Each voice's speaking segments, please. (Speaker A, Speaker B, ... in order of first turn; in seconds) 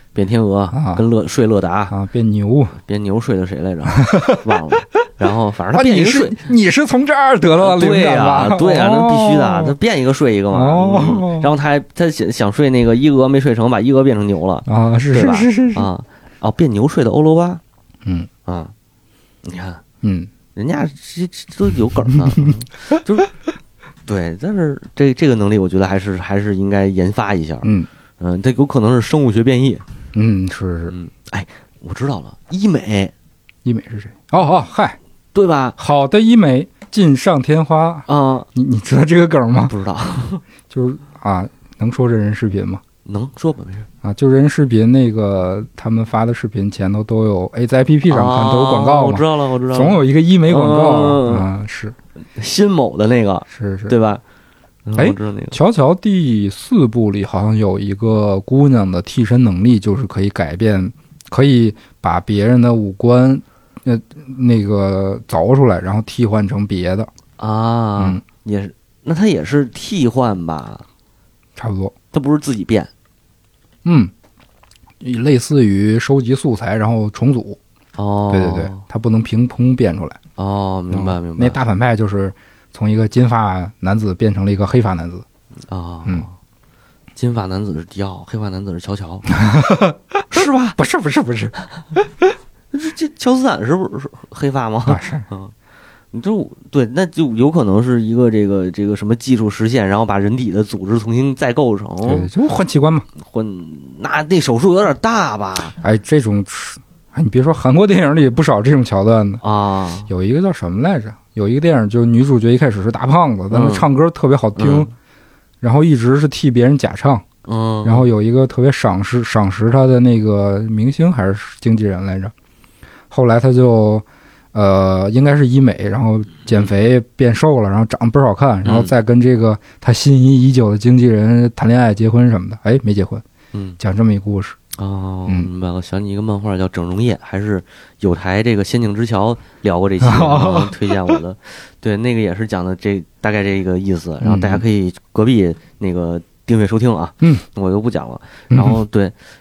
Speaker A: 0.1-1.9, 2.8-6.4, 7.6-17.6, 18.4-18.7, 19.4-19.8, 20.5-23.3, 24.1-29.8, 30.9-33.1, 35.3-35.8, 38.1-38.5, 39.7-40.4, 43.0-43.9, 48.1-51.5, 52.4-54.2, 54.8-55.6, 67.4-70.8, 72.1-72.9, 78.0-78.8, 80.4-81.6, 85.7-86.3, 87.2-89.4, 90.3-90.8, 92.7-95.5, 96.1-102.3, 103.2-105.8, 109.4-110.1, 113.5-113.8, 114.6-114.9, 117.5-118.1, 128.6-128.9, 133.5-133.8, 134.8-149.1
Speaker B: 0.7-1.0, 1.9-2.7, 4.0-4.6, 5.7-9.7, 10.5-11.5, 14.7-15.9, 20.0-20.3, 27.6-27.9, 30.1-30.9, 33.6-35.0, 35.8-39.7, 40.7-42.8, 44.0-51.9, 53.5-53.9, 54.9-67.1, 71.5-71.9, 73.8-74.1, 75.0-77.6, 78.3-80.2, 80.9-85.2, 89.3-91.5, 94.9-95.2, 102.0-103.0, 105.8-109.4, 110.1-114.9, 115.6-117.2, 117.8-122.3, 123.1-133.2, 133.8-134.6, 140.0-141.2, 144.2-144.6, 148.5-148.8